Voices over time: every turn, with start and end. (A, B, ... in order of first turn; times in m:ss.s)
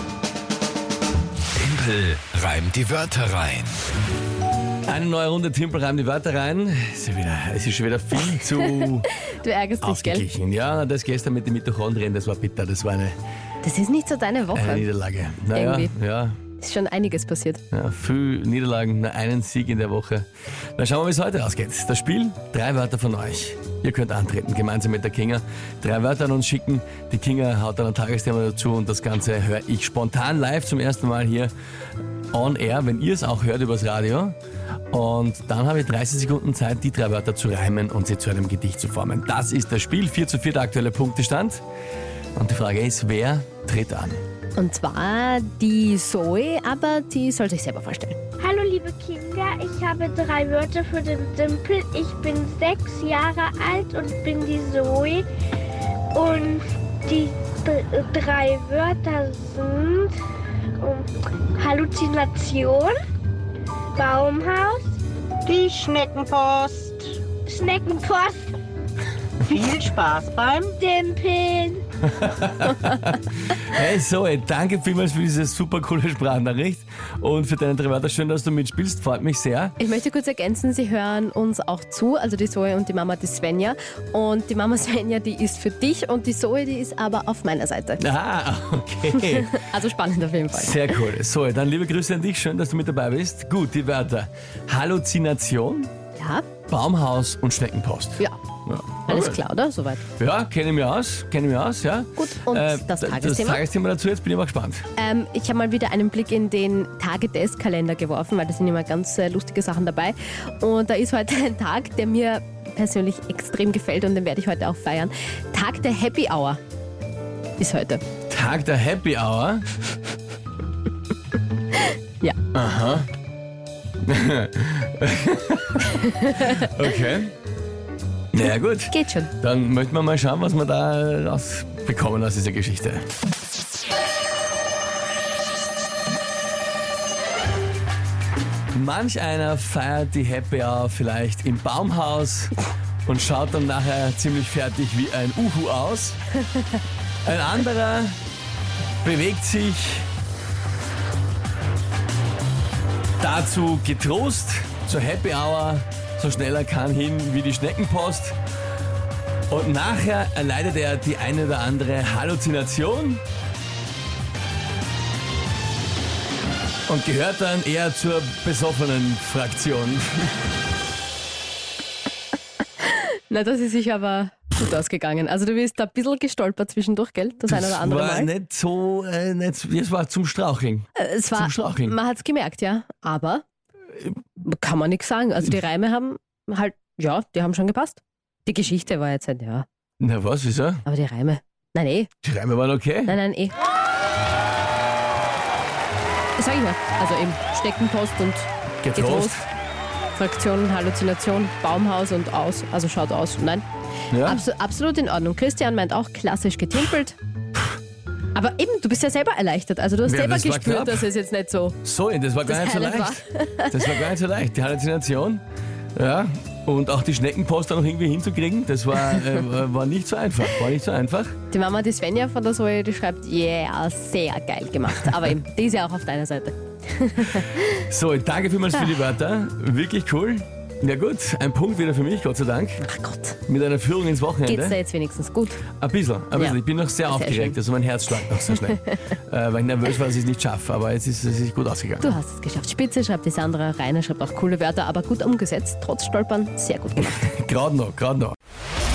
0:01.6-0:03.8 A
0:04.9-0:09.1 B
0:08.6-0:10.3 C
0:09.8-0:13.2 B
0:13.6-0:14.9 C
0:14.5-0:16.4 B
0:15.5-0:15.9 C
0:16.6-0:17.6 C
0:17.7-0:31.5 B
0:32.3-0:34.4 B
0:34.9-0:41.6 B
0:42.4-0:44.2 B
0:44.6-0:48.2 C
0:48.4-0:55.3 D
0:56.1-1:00.2 D
1:00.8-1:03.0 D
1:04.0-1:05.0 D
1:05.5-1:07.2 E
1:07.5-1:08.6 D
1:09.4-1:10.7 E
1:10.8-1:11.8 D
1:12.0-1:19.8 B
1:19.8-1:28.0 C
1:28.0-1:29.6 B
1:29.2-1:31.0 C
1:30.5-1:35.9 B
1:36.2-1:36.5 C
1:36.7-1:39.4 B
1:39.1-1:40.0 C
1:40.2-1:44.9 B
1:42.2-1:43.6 C
1:45.0-1:56.6 C
1:57.6-1:58.0 C
1:58.3-1:59.7 B
2:02.5-2:03.1 B
2:04.0-2:07.3 B
2:06.2-2:06.6 C
2:08.3-2:13.1 B
2:08.9-2:09.3 C
2:18.7-2:26.2 B
2:27.2-2:28.2 B
2:29.0-2:30.1 B
2:33.2-2:38.4 B
2:39.5-2:43.2 B
2:46.9-2:50.3 B
2:52.8-2:58.3 C
2:57.5-3:02.0 B
3:01.0-3:03.4 C
3:04.4-3:09.7 C
3:10.0-3:10.8 B
3:10.9-3:12.1 C
3:12.2-3:13.2 B
3:13.1-3:13.6 C
3:16.4-3:19.4 C
3:18.8-3:19.5 B
3:20.2-3:27.2 C
3:24.1-3:24.4 B
3:28.3-3:31.8 C
3:30.0-3:31.1 B
3:31.8-3:35.4 B
3:32.5-3:34.0 C
3:36.0-3:41.4 B
3:41.5-3:47.8 C
3:47.7-3:52.8 B
3:52.8-3:53.4 C
3:53.5-3:54.8 B
3:54.4-3:55.6 C
3:55.8-4:02.2 B
3:56.4-3:57.6 C
4:02.0-4:07.2 C
4:07.1-4:08.4 B